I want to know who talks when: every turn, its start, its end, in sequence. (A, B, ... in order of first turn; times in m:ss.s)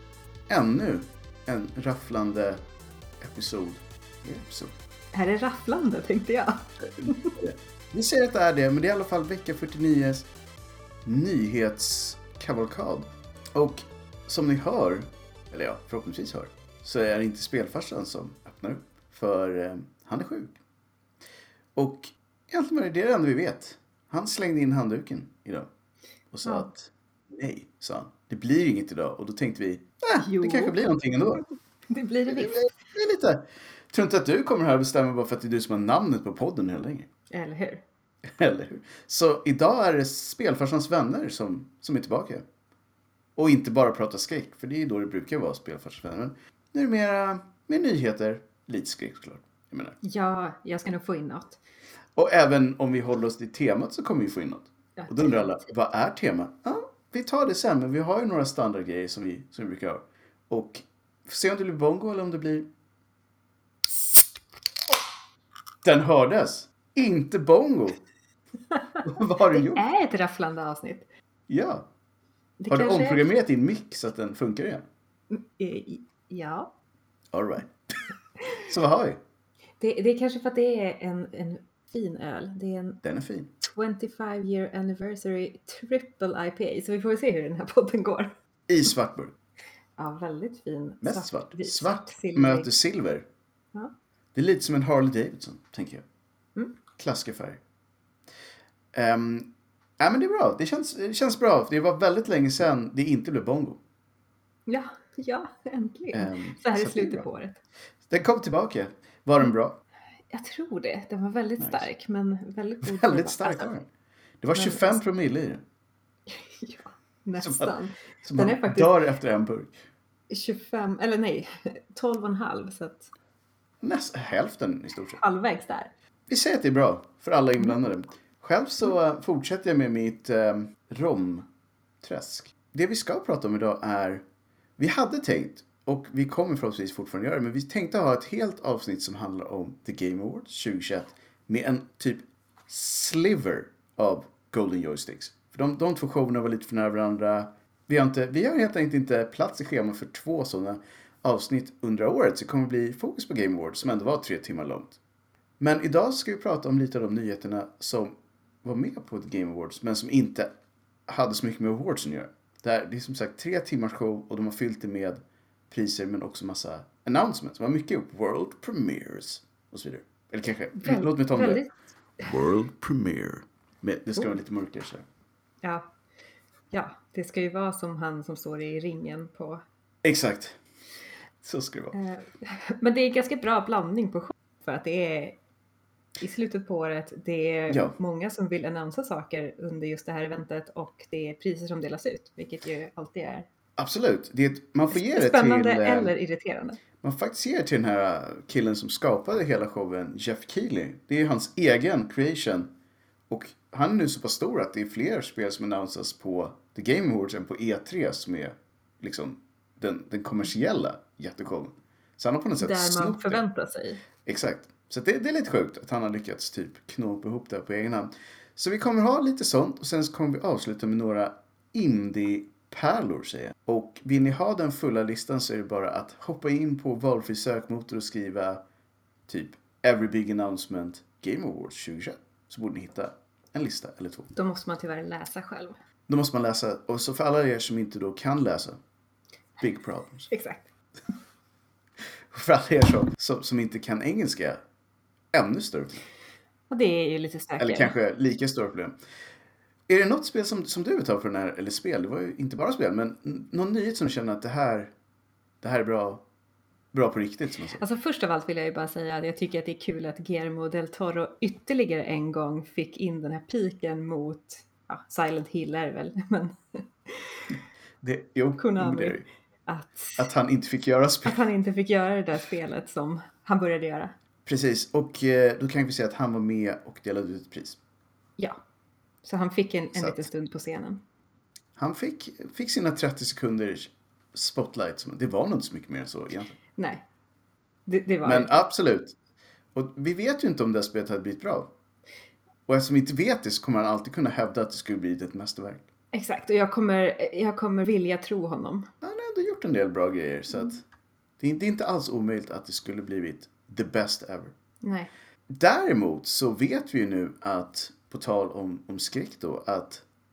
0:00.5-0:02.6 A
0:03.2-0:04.7 A
0:05.1-0:07.4 B
0:06.9-0:10.3 A
0:11.0-0:20.6 A
0:21.8-0:25.7 A
0:26.3-0:31.4 A
0:30.2-0:32.6 B
0:32.3-0:37.1 A
0:37.3-0:37.8 B
0:38.3-0:42.4 A
0:43.4-0:50.0 A
0:50.0-0:51.6 B
0:52.2-1:02.7 A
0:55.0-0:55.6 B
1:05.8-1:08.0 A
1:08.7-1:09.0 B
1:09.0-1:09.8 A
1:09.5-1:11.0 B
1:11.5-1:11.8 A
1:12.6-1:13.3 B
1:12.7-1:14.8 A
1:15.3-1:16.7 B
1:17.3-1:17.7 A
1:18.5-1:19.2 A
1:19.8-1:23.0 B
1:23.0-1:23.5 A
1:23.6-1:28.3 B
1:28.7-1:29.3 A
1:30.0-1:32.7 B
1:31.0-1:33.2 A
1:34.3-1:36.0 A
1:37.0-1:37.6 A
1:38.9-1:43.8 A
1:44.6-1:47.6 B
1:46.1-1:47.2 A
1:48.1-1:49.8 A
1:50.3-1:53.7 B
1:51.6-1:51.8 A
1:52.8-1:53.9 A
1:54.4-1:55.6 A
1:54.5-1:55.0 B
1:56.3-1:59.0 B
1:57.4-1:59.8 A
2:00.3-2:03.1 B
2:03.8-2:05.2 A
2:05.2-2:05.9 B
2:06.3-2:11.5 A
2:12.0-2:14.2 A
2:14.8-2:35.0 A
2:35.6-2:40.5 A
2:41.1-2:51.6 A
2:50.8-2:51.7 B
2:52.2-2:55.0 A
2:55.6-2:55.9 B
2:56.7-2:59.6 B
3:00.0-3:00.6 A
3:01.4-3:02.0 A
3:01.9-3:05.4 B
3:06.2-3:13.5 B
3:07.7-3:08.0 A
3:13.8-3:16.1 A
3:14.9-3:16.8 B
3:17.0-3:22.7 A
3:23.3-3:33.4 A
3:32.6-3:34.0 B
3:34.2-3:48.6 A
3:49.3-3:54.3 A
3:54.3-3:55.8 B
3:56.1-3:58.8 A
3:59.6-4:00.3 A
4:00.3-4:00.7 B
4:02.3-4:04.6 A
4:05.3-4:06.0 A
4:06.7-4:07.9 B
4:07.6-4:08.9 A
4:09.9-4:14.9 A
4:15.6-4:16.2 A
4:16.9-4:17.8 A
4:17.8-4:27.4 B
4:28.0-4:29.3 A
4:28.6-4:30.3 B
4:30.2-4:31.4 A
4:31.2-4:34.1 B
4:34.4-4:37.8 A
4:39.2-4:41.0 B
4:39.9-4:40.2 A
4:41.8-4:46.6 A
4:46.8-4:47.0 B
4:47.8-4:48.6 B
4:48.2-4:49.1 A
4:49.7-4:51.7 A
4:52.7-4:55.8 A
4:56.1-4:58.9 B
4:59.0-5:00.8 A
5:01.4-5:04.5 A
5:04.8-5:05.1 B
5:05.5-5:10.0 A